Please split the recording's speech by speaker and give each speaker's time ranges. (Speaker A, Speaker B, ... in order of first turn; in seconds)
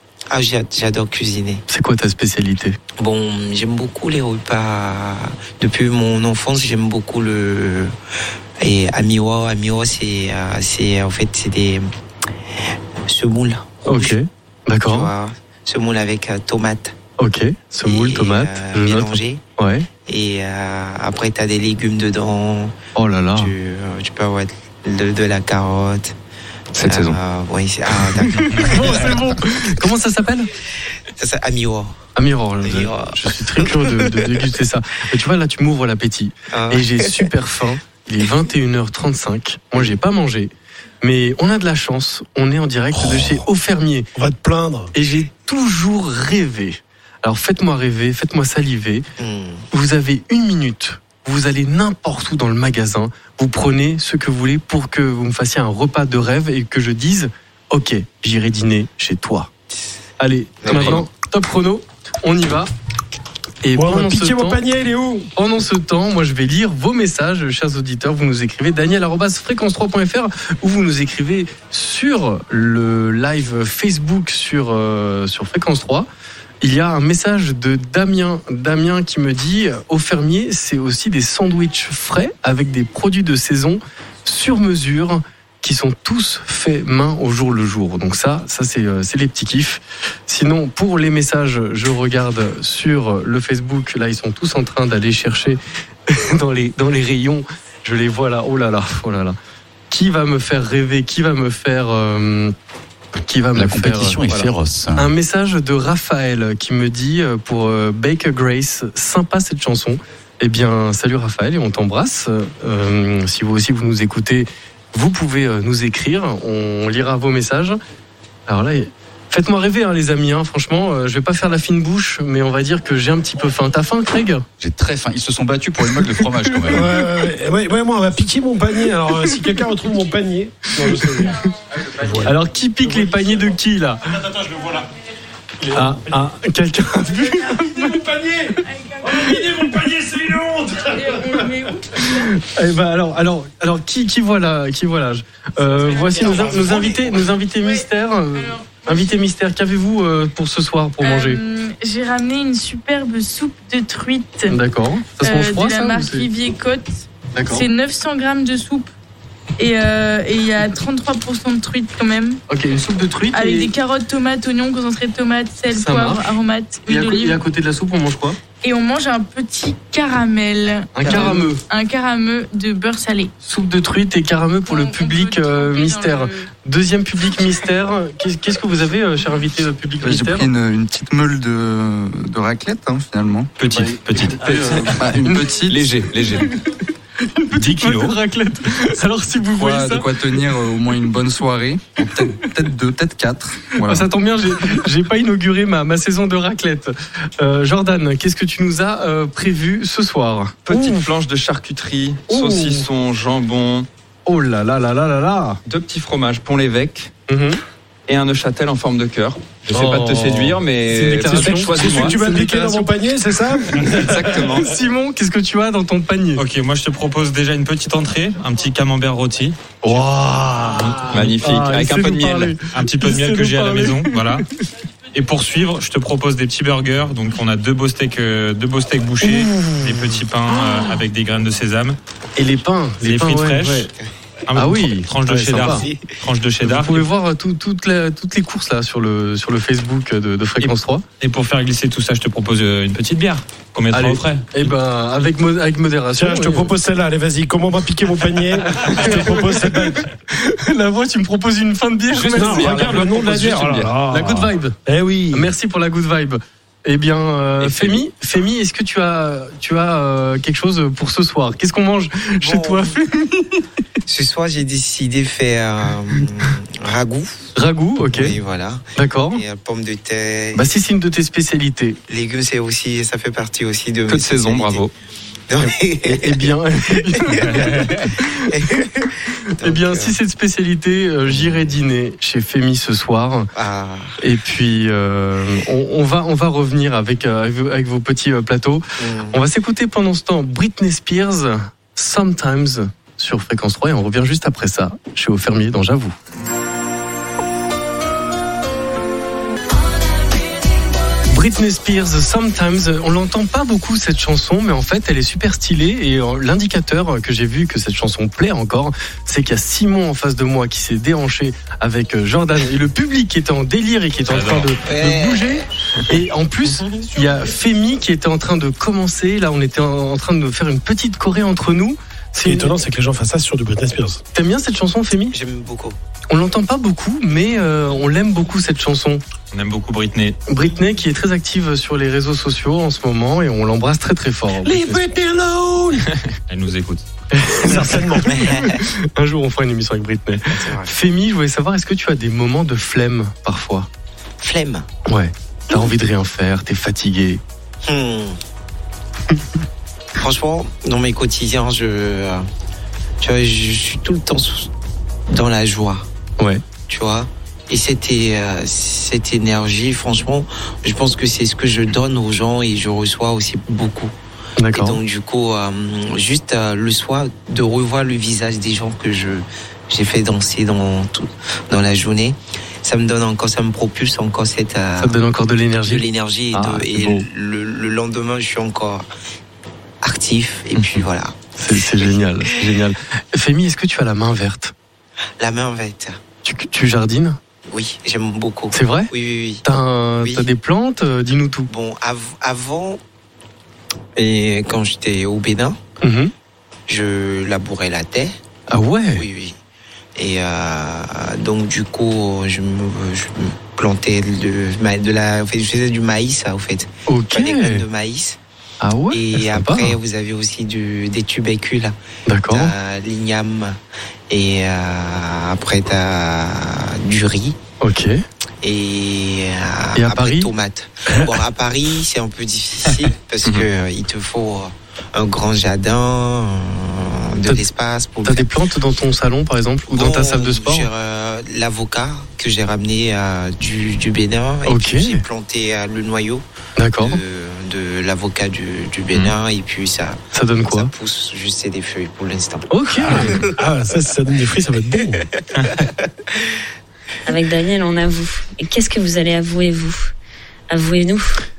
Speaker A: 0.3-1.6, 3.0-7.9, 8.6-11.9, 13.1-14.2, 14.8-16.9, 17.8-19.4, 20.1-22.7, 23.4-26.1, 26.8-29.3, 31.1-32.0, 32.6-34.2, 36.5-37.2, 49.2-49.6, 60.6-61.0, 146.1-147.1, 235.6-236.1, 262.4-262.9, 264.1-267.5, 268.0-270.7, 272.1-274.8, 275.5-280.1, 281.3-281.7, 283.5-284.2, 289.0-289.4, 314.8-315.6, 316.7-317.4, 325.3-326.0, 338.3-338.8, 340.5-340.9, 344.4-344.9, 347.8-348.4, 350.2-352.4, 353.2-354.7, 355.3-356.1, 356.9-364.1, 364.7-375.2, 375.8-379.1, 380.0-382.1, 385.4-386.2, 387.7-389.6, 390.2-390.5, 391.7-393.0, 394.1-395.8, 396.9-398.3, 399.1-399.6, 400.2-408.4, 409.1-411.9, 412.5-413.8, 414.3-417.6, 418.6-428.5, 429.9-436.4, 437.0-443.5
Speaker B: 1.7-2.8, 13.8-15.1, 17.2-19.9, 22.9-23.5, 28.3-30.5, 32.1-44.1, 44.9-49.0, 49.7-59.5, 60.2-62.7, 63.6-64.6, 65.3-76.1, 76.6-99.3, 99.9-102.5, 103.2-117.8, 118.5-124.4, 130.8-131.3, 132.2-134.3, 135.7-138.0, 139.1-139.6, 141.9-151.4, 154.5-156.3, 157.3-157.7, 162.5-163.7, 165.7-166.3, 166.8-168.4, 170.9-171.6, 173.4-180.5, 183.8-185.6, 187.2-190.2, 193.8-201.1, 202.3-202.9, 204.2-205.6, 207.3-207.6, 209.7-212.9, 213.8-216.4, 219.8-224.4, 229.2-230.6, 232.4-233.9, 234.5-235.8, 236.6-241.0, 243.9-246.7, 248.7-253.5, 254.1-254.8, 255.3-263.6, 267.5-268.4, 268.9-269.4, 270.5-272.0, 275.6-278.5, 279.6-283.5, 284.2-296.1, 301.3-322.7, 324.3-325.3, 326.3-329.2, 330.5-335.0, 337.3-343.9, 345.1-347.4, 364.6-365.0, 375.0-377.3, 381.6-384.7, 386.4-387.4, 388.7-389.1, 389.6-391.7, 396.0-396.3, 398.7-399.2, 407.1-407.8, 408.8-410.0, 412.3-412.7, 417.8-418.2, 419.9-420.5, 428.2-430.9, 434.7-435.2, 436.8-437.2, 440.3-440.9, 442.7-443.4
Speaker C: 26.7-27.2, 185.7-186.5, 200.7-203.9, 205.7-207.1, 208.1-212.2, 213.9-214.7, 221.1-222.6, 252.1-253.9, 257.6-258.0, 274.1-274.9
Speaker D: 44.1-44.9, 63.7-65.3, 126.7-132.3, 134.2-134.9, 135.6-136.0, 137.7-141.6, 211.2-214.5, 246.1-250.1, 252.3-255.5, 322.4-324.2, 334.6-336.1, 337.5-338.5, 443.0-445.2
Speaker E: 60.7-61.0, 183.6-184.9, 187.6-188.1, 216.3-219.8, 220.8-221.3, 222.7-224.4, 225.1-232.0, 233.0-233.9, 234.5-237.1, 240.6-244.7, 314.3-314.7, 329.5-330.4, 336.5-337.0
Speaker F: 103.5-105.1, 124.6-126.9
Speaker G: 137.2-137.9, 138.6-139.3, 140.8-142.3, 145.9-146.3, 148.3-149.2, 151.0-154.6, 155.2-158.9, 159.6-162.4, 163.3-167.4, 168.6-173.3, 174.7-176.5
Speaker H: 180.0-183.5, 184.8-185.9, 189.5-194.1
Speaker I: 447.2-450.1, 450.7-451.4